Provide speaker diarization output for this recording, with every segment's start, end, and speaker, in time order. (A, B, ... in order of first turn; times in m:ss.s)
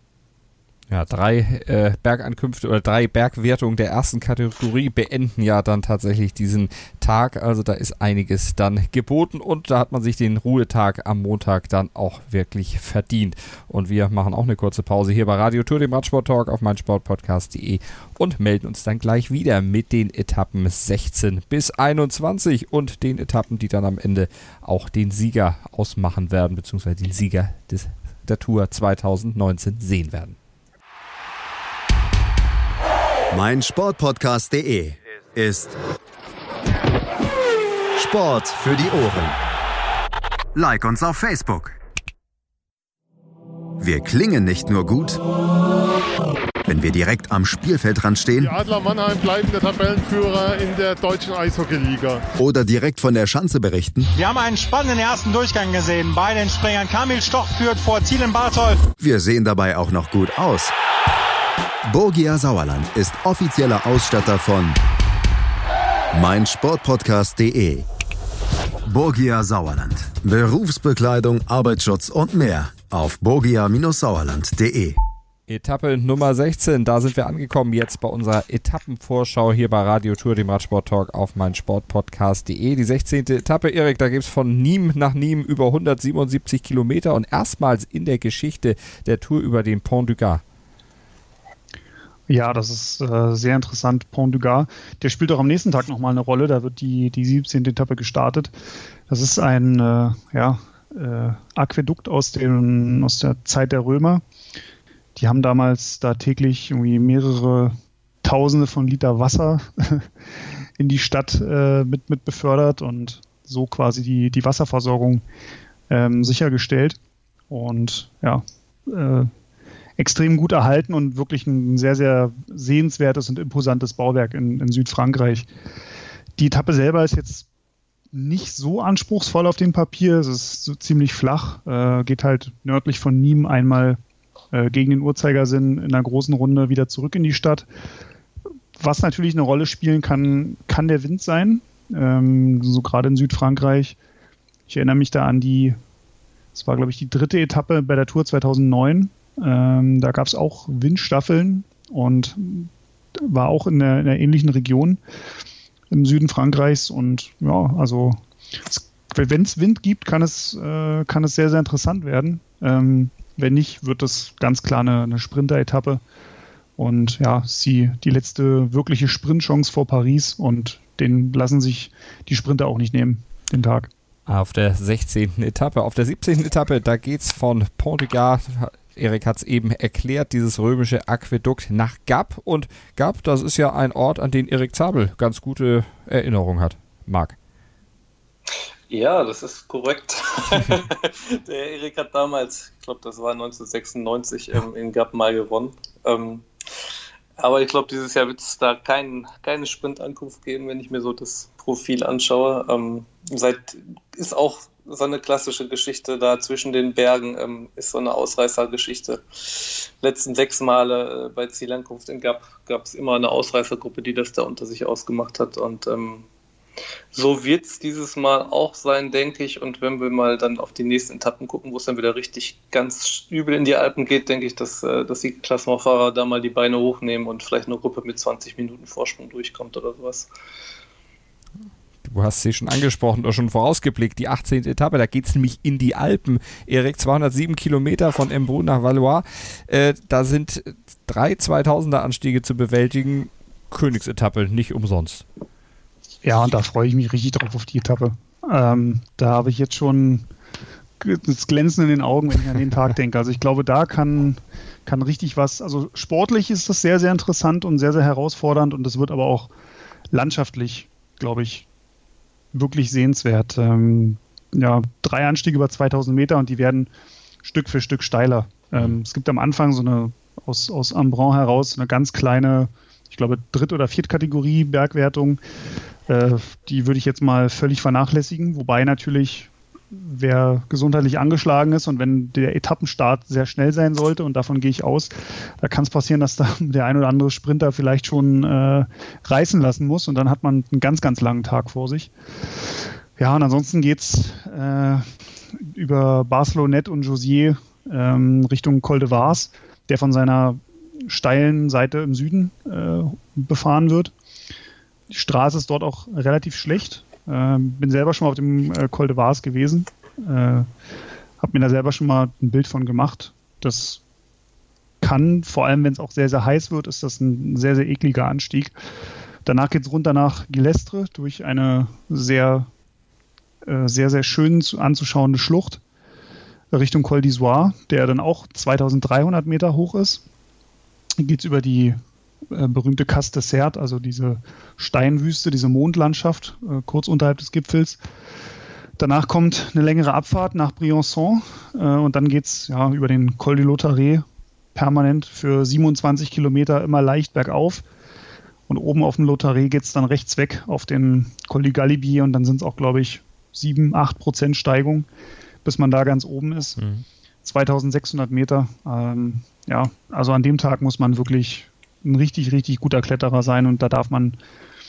0:00.9-0:30.4 A
0:33.3-0:35.7 B
0:38.0-0:39.4 B
0:40.5-0:41.8 B
0:43.8-0:45.2 B
0:46.6-0:48.5 B
0:48.4-0:52.2 C
0:52.4-0:54.1 B
0:54.1-0:58.8 D
0:59.0-1:00.7 B
1:01.9-1:04.8 B
1:06.1-1:07.8 B
1:08.8-1:15.0 B
1:15.5-1:30.4 A
1:32.3-1:38.5 E
1:39.1-1:44.2 E
1:45.2-1:50.1 E
1:50.8-1:55.2 E
1:55.9-1:57.0 E
1:57.5-1:59.3 E
2:00.0-2:05.5 E
2:06.4-2:07.4 E
2:08.1-2:14.0 E
2:14.5-2:17.6 E
2:18.8-2:24.0 E
2:24.7-2:25.8 E
2:26.6-2:35.0 E
2:35.9-2:46.0 E
2:46.8-2:53.9 E
2:54.3-3:07.4 A
3:08.9-3:16.4 F
3:17.4-3:36.2 F
3:37.1-3:50.3 F
3:52.0-4:05.2 A
4:06.2-4:10.3 E
4:11.0-4:19.5 E
4:20.1-4:21.6 E
4:22.5-4:26.9 E
4:27.4-4:35.4 E
4:36.1-4:52.1 E
4:53.2-4:55.0 E
4:55.6-5:04.1 E
5:05.1-5:10.7 E
5:11.4-5:14.0 E
5:15.0-5:18.7 E
5:19.4-5:22.7 E
5:23.6-5:25.8 E
5:26.7-5:30.2 E
5:31.2-5:32.0 E
5:32.5-5:38.0 E
5:39.0-5:47.8 E
5:48.7-5:55.1 E
5:55.6-5:56.8 E
5:56.8-5:57.0 A
5:57.4-6:04.4 E